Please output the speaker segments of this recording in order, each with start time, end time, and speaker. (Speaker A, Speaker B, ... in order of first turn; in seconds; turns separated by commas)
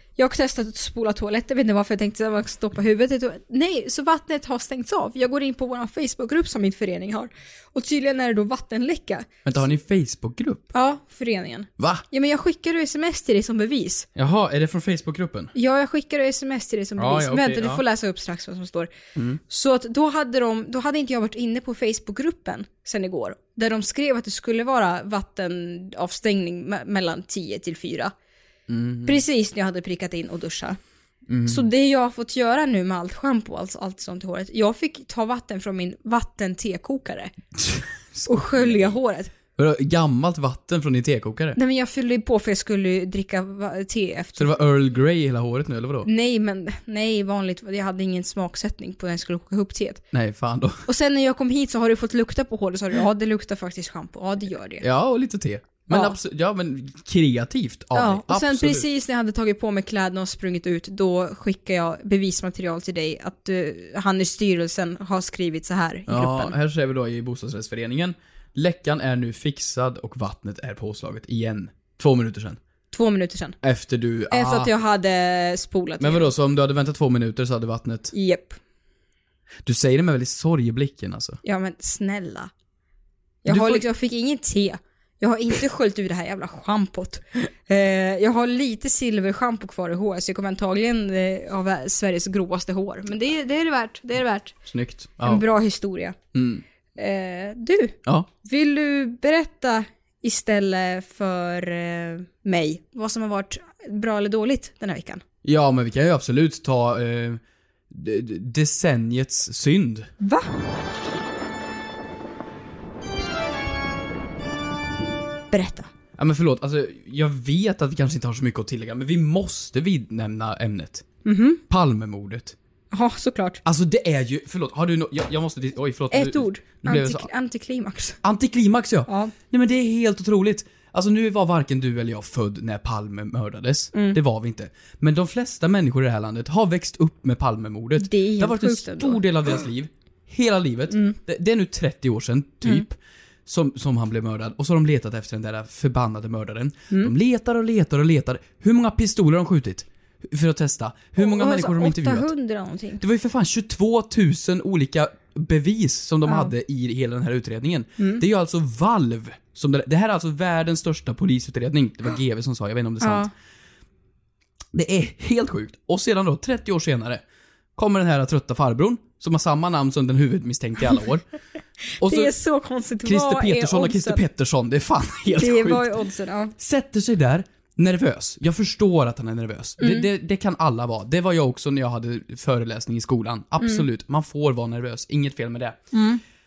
Speaker A: 0.2-9.3, Speaker B: 9.4-10.7, Speaker A: 10.7-14.1, Speaker B: 11.8-12.0, Speaker B: 14.2-15.5, Speaker A: 15.6-18.9, Speaker B: 17.0-17.8, Speaker A: 19.5-28.1, Speaker B: 28.7-29.2, Speaker A: 29.1-30.8, Speaker B: 31.3-31.7, Speaker A: 31.5-37.3, Speaker B: 37.6-38.9, Speaker A: 38.2-39.3, Speaker B: 39.6-41.6, Speaker A: 41.6-44.6, Speaker B: 44.4-46.1, Speaker A: 46.0-50.0, Speaker B: 50.1-50.9, Speaker A: 50.9-54.9, Speaker B: 54.8-58.9, Speaker A: 55.9-56.2, Speaker A: 57.9-66.5, Speaker B: 66.1-72.6, Speaker A: 72.9-73.6, Speaker B: 73.6-74.7, Speaker A: 74.3-76.3, Speaker B: 76.0-78.1, Speaker A: 78.1-78.6, Speaker B: 79.6-81.4, Speaker A: 81.4-82.5, Speaker A: 83.4-94.6, Speaker B: 83.5-83.8, Speaker B: 94.7-95.4, Speaker A: 95.2-96.2, Speaker B: 96.3-96.6, Speaker A: 97.0-105.2, Speaker B: 105.4-110.1, Speaker A: 110.2-110.5, Speaker A: 115.5-115.9, Speaker B: 116.2-121.1, Speaker A: 121.2-121.6, Speaker B: 121.7-122.6, Speaker A: 122.9-123.6, Speaker B: 123.6-127.3, Speaker A: 126.1-128.2, Speaker B: 128.2-152.3, Speaker A: 129.1-129.3, Speaker A: 133.9-134.2, Speaker A: 138.0-139.2, Speaker A: 140.9-141.2, Speaker A: 151.2-153.0, Speaker B: 153.0-163.3, Speaker A: 156.2-156.5, Speaker A: 163.0-163.3, Speaker B: 164.7-167.2, Speaker B: 167.8-171.2, Speaker B: 172.0-172.3, Speaker A: 172.0-174.2, Speaker B: 173.0-175.9, Speaker A: 175.4-176.5, Speaker B: 176.6-185.8, Speaker A: 179.8-180.1, Speaker A: 183.6-183.8, Speaker A: 185.9-186.2